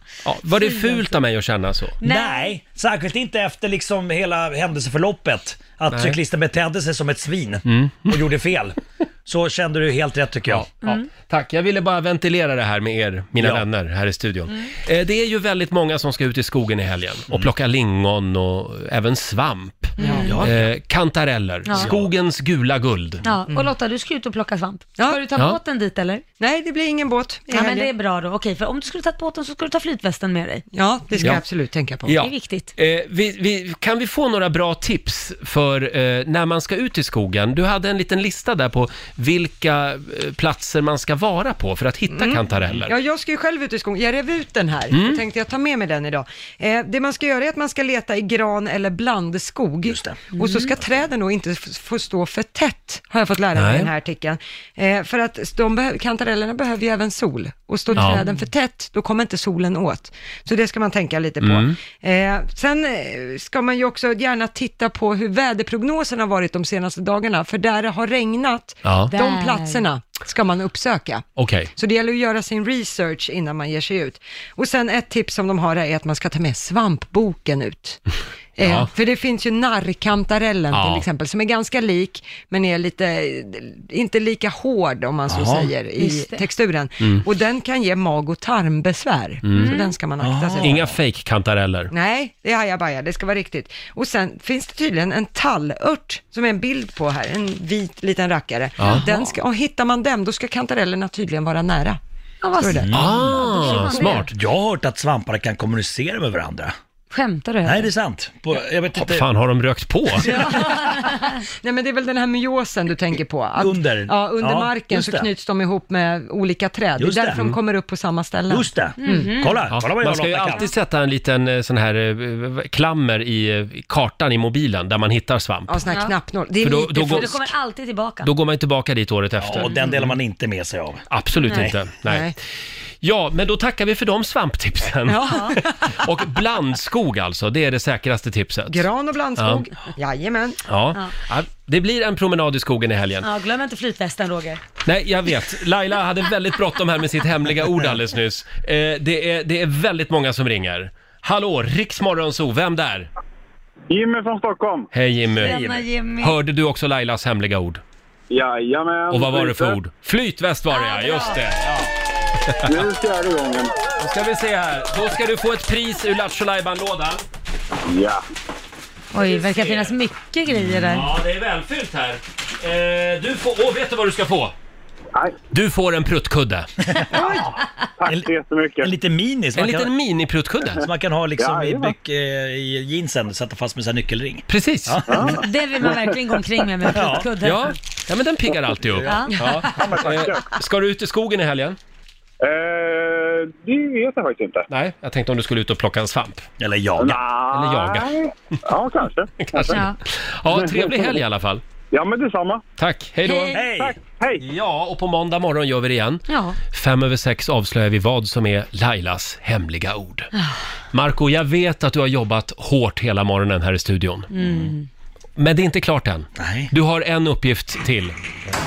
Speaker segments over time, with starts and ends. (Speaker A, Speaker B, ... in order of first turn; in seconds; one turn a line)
Speaker A: 0.2-2.0
Speaker B: 0.5-1.2
Speaker B: 2.0-2.5
Speaker C: 2.0-10.7
Speaker A: 5.9-6.2
Speaker A: 7.7-8.2
Speaker A: 10.5-23.2
Speaker C: 13.4-13.6
Speaker B: 20.0-20.4
Speaker D: 20.0-20.4
Speaker C: 20.2-20.7
Speaker B: 21.6-21.9
Speaker C: 21.7-22.1
Speaker B: 23.2-26.2
Speaker D: 25.0-25.2
Speaker D: 26.4-27.9
Speaker B: 27.5-30.6
Speaker D: 30.7-32.1
Speaker A: 32.0-42.9
Speaker B: 32.2-32.7
Speaker D: 42.1-78.0
Speaker A: 44.9-45.2
Speaker C: 49.8-50.2
Speaker B: 50.4-50.7
Speaker A: 53.5-53.9
Speaker B: 57.9-58.4
Speaker A: 57.9-58.2
Speaker A: 61.4-61.8
Speaker A: 68.8-69.1
Speaker B: 69.1-69.8
Speaker A: 71.4-71.7
Speaker D: 78.6-90.8
Speaker A: 78.6-78.9
Speaker A: 80.7-81.0
Speaker C: 85.3-85.7
Speaker B: 86.0-86.4
Speaker A: 89.4-89.8
Speaker B: 89.5-89.9
Speaker C: 90.2-90.9
Speaker A: 90.6-91.9
Speaker D: 91.9-102.0
Speaker A: 98.8-99.0
Speaker B: 98.8-99.3
Speaker B: 102.4-104.3
Speaker D: 102.6-103.0
Speaker C: 102.7-103.6
Speaker A: 102.9-104.3
Speaker C: 104.2-106.7
Speaker B: 107.1-107.9
Speaker C: 107.6-109.3
Speaker A: 109.0-110.3
Speaker C: 110.2-110.5
Speaker B: 110.3-111.2
Speaker D: 111.6-119.3
Speaker C: 113.6-115.3
Speaker C: 117.0-117.4
Speaker C: 118.5-120.7
Speaker B: 119.0-119.7
Speaker A: 119.7-125.8
Speaker D: 125.7-127.4
Speaker A: 126.6-127.5
Speaker B: 126.9-128.3
Speaker A: 128.2-130.1
Speaker C: 129.4-131.8
Speaker A: 131.1-132.3
Speaker D: 132.0-132.3
Speaker A: 133.0-139.6
Speaker D: 135.1-135.9
Speaker B: 135.2-135.6
Speaker D: 138.7-140.6
Speaker A: 140.7-143.3
Speaker B: 143.2-144.6
Speaker A: 144.8-153.1
Speaker E: 153.9-154.9
Speaker A: 154.9-155.5
Speaker B: 155.4-156.4
Speaker C: 155.4-155.8
Speaker A: 156.2-157.8
Speaker E: 158.3-159.8
Speaker A: 159.1-161.9
Speaker B: 160.7-161.4
Speaker A: 162.4-162.7
Speaker E: 162.7-163.7
Speaker A: 164.0-167.2
Speaker E: 167.8-168.2
Speaker B: 169.1-171.1
Speaker A: 169.3-169.9
Speaker A: 170.7-174.5
Speaker A: 175.5-176.7
Speaker C: 176.8-177.4
Speaker E: 178.0-178.9
Speaker C: 178.1-179.9
Speaker A: 179.5-180.8
Speaker C: 180.8-185.4
Speaker E: 181.4-181.9
Speaker A: 184.5-185.1
Speaker E: 185.1-185.4
Speaker B: 185.2-187.7
Speaker C: 186.9-187.3
Speaker A: 187.4-191.8
Speaker C: 188.8-189.3
Speaker B: 189.0-189.7
Speaker E: 189.8-190.4
Speaker E: 192.4-194.7
Speaker A: 194.7-196.4
Speaker C: 196.6-197.2
Speaker E: 197.0-199.8
Speaker A: 197.5-198.1
Speaker A: 199.4-201.6
Speaker B: 199.7-200.0
Speaker E: 200.5-201.2
Speaker E: 201.9-202.6
Speaker A: 202.8-203.6
Speaker B: 203.2-203.7
Speaker C: 203.5-204.0
Speaker E: 203.7-204.4
Speaker A: 204.4-210.3
Speaker B: 206.3-206.6
Speaker B: 210.3-210.6
Speaker A: 210.9-214.3
Speaker B: 214.3-214.9
Speaker C: 214.3-214.7
Speaker A: 215.4-218.1
Speaker C: 216.3-216.7